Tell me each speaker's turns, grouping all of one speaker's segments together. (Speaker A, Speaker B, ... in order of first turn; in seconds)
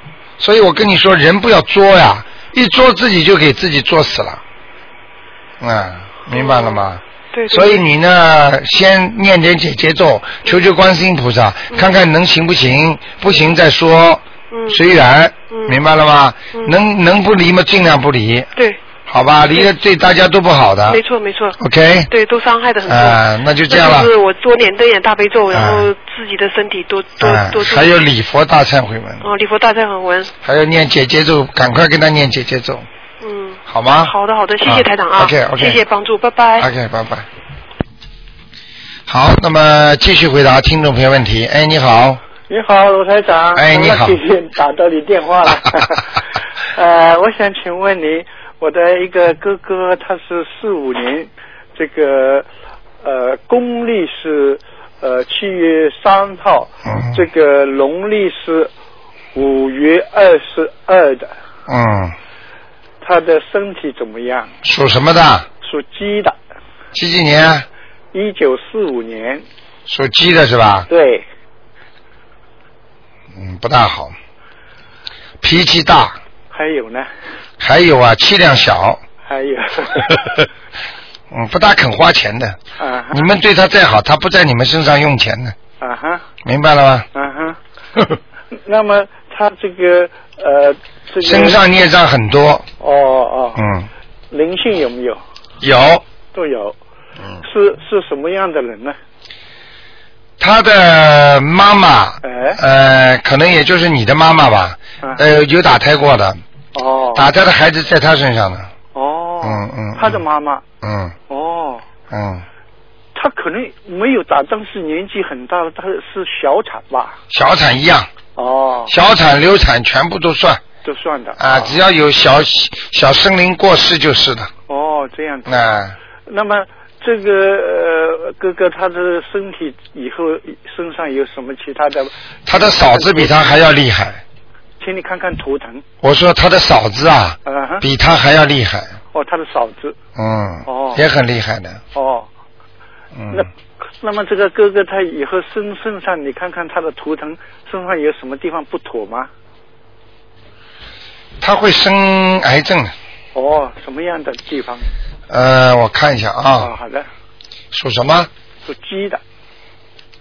Speaker A: 0.4-4.4, 5.6-18.5, 19.1-21.0, 21.6-22.1, 22.9-24.1, 25.5-25.9, 27.2-29.2, 30.4-32.9, 33.7-34.1, 34.6-35.8, 36.6-37.3, 39.1-42.2, 43.5-44.2, 56.9-57.2, 61.7-62.1, 64.6-65.5, 66.9-67.7, 69.9-70.9, 73.3-74.1, 75.4-76.2, 77.6-79.0, 81.3-82.6, 83.1-85.6, 86.4-87.1, 91.2-92.7, 93.6-93.9, 95.6-96.0, 100.4-106.4, 107.2-108.7, 109.4-110.2, 110.8-111.2, 112.1-112.5, 117.3-118.1, 118.9-120.6, 121.4-124.5, 125.5-126.0, 132.5-134.2, 136.0-138.9, 140.2-141.8, 143.2-143.5, 151.4-152.9, 155.3-156.7, 157.7-158.3
Speaker B: 6.3-7.9, 14.5-14.8, 15.5-15.8, 16.5-16.8, 20.9-21.6, 22.1-27.9, 29.2-30.3, 33.2-36.7
Speaker C: 42.5-52.5, 53.0-58.7, 59.4-61.4, 63.0-64.5, 65.6-66.4, 68.1-69.4, 70.9-71.2, 76.5-77.1, 79.3-80.4, 82.8-83.2, 85.8-86.2, 87.1-87.6, 88.7-91.6, 92.8-93.6, 94.3-95.2, 96.3-96.8, 97.4-99.0, 102.2-102.6, 106.7-107.3, 109.0-110.6, 111.3-111.8, 113.2-117.2, 118.4-118.9, 120.8-121.8, 124.7-125.7, 126.3-133.5, 134.8-135.8, 137.4-137.8, 139.1-139.9, 140.7-141.0, 141.9-142.3, 143.3-149.3, 153.3-154.9, 156.6-157.1, 158.7-159.2